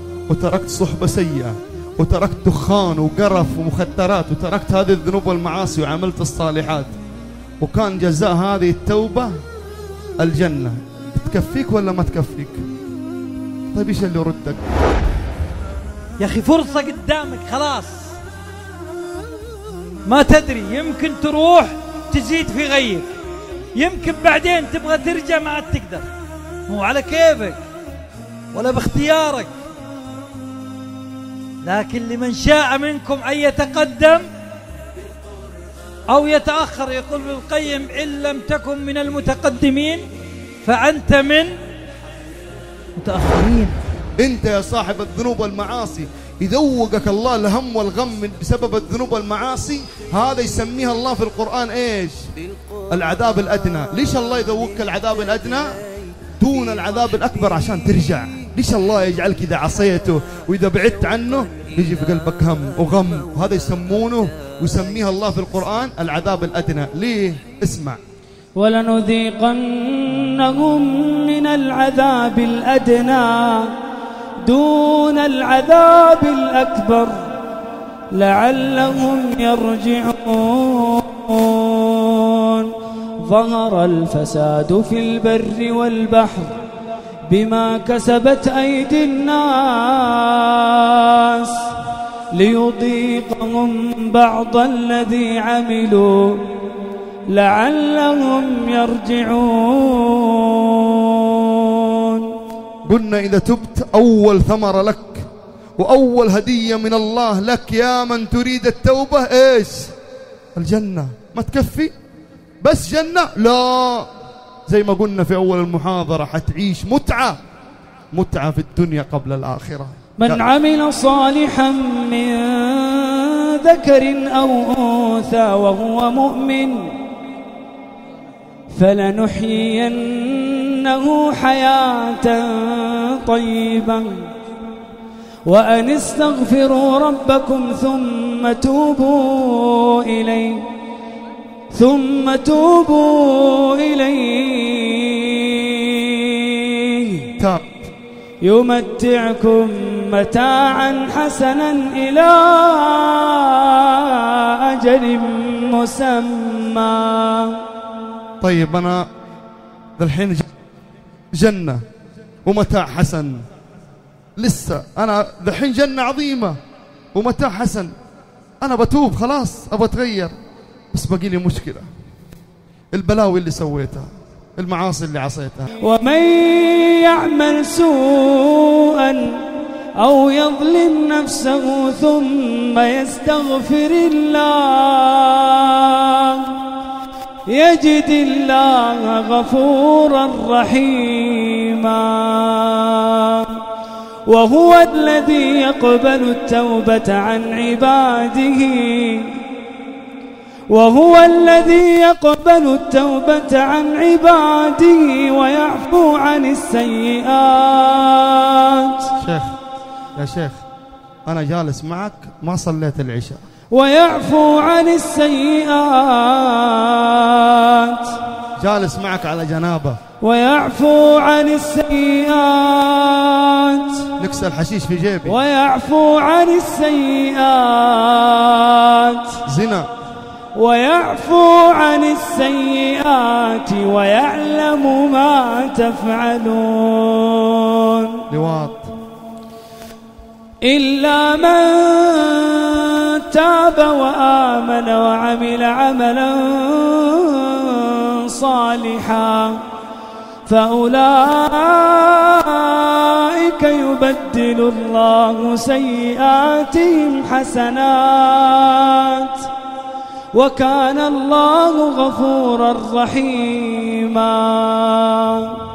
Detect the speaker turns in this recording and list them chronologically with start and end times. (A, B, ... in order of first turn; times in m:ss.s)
0:00.3-0:07.0 A
0:07.6-0:09.4 A
0:10.2-0:12.6 A
0:13.7-0:14.6 A
0:16.2-0:18.2 B
0:20.0-0:23.1 B
0:23.8-0:26.1 B
0:26.7-0:27.6 B
0:28.5-0:29.5 B
0:31.6-0:34.3 B
0:36.1-0:40.0 B
0:40.6-0:41.6 B
0:43.0-0:43.8 B
0:44.2-0:52.2 A
0:52.9-0:55.8 A
0:56.4-1:08.0 A
1:08.6-1:13.7 C
1:14.4-1:17.3 C
1:18.1-1:26.6 C
1:27.3-1:31.8 C
1:32.3-1:36.6 C
1:37.3-1:42.4 C
1:42.8-1:50.0 A
1:50.6-1:51.9 A
1:52.6-1:54.1 A
1:54.7-1:57.4 A
1:58.1-2:00.5 A
2:00.2-2:07.0 C
2:08.7-2:14.3 C
2:15.5-2:20.7 C
2:21.7-2:27.3 C
2:27.4-2:27.7 A
2:28.4-2:37.6 C
2:38.4-2:39.0 A
2:40.0-2:40.5 A
2:41.3-2:41.8 A
2:42.4-2:43.4 A
2:44.4-2:46.6 A
2:47.1-2:47.9 A
2:48.6-2:50.3 A
2:50.9-2:51.9 A
2:52.9-2:55.7 A
2:55.8-3:06.6 C
3:07.5-3:13.6 C
3:14.3-3:19.4 C
3:20.7-3:29.1 C
3:29.2-3:29.6 A
3:30.2-3:30.6 A
3:31.3-3:33.4 A
3:33.7-3:38.3 C
3:38.6-3:40.0 A
3:40.2-3:44.1 C
3:44.2-3:45.4 A
3:45.3-3:49.4 C
3:49.5-3:49.9 A
3:50.6-3:58.2 C
3:58.3-3:58.9 A
4:00.6-4:09.7 C
4:10.5-4:19.5 C
4:20.3-4:25.7 C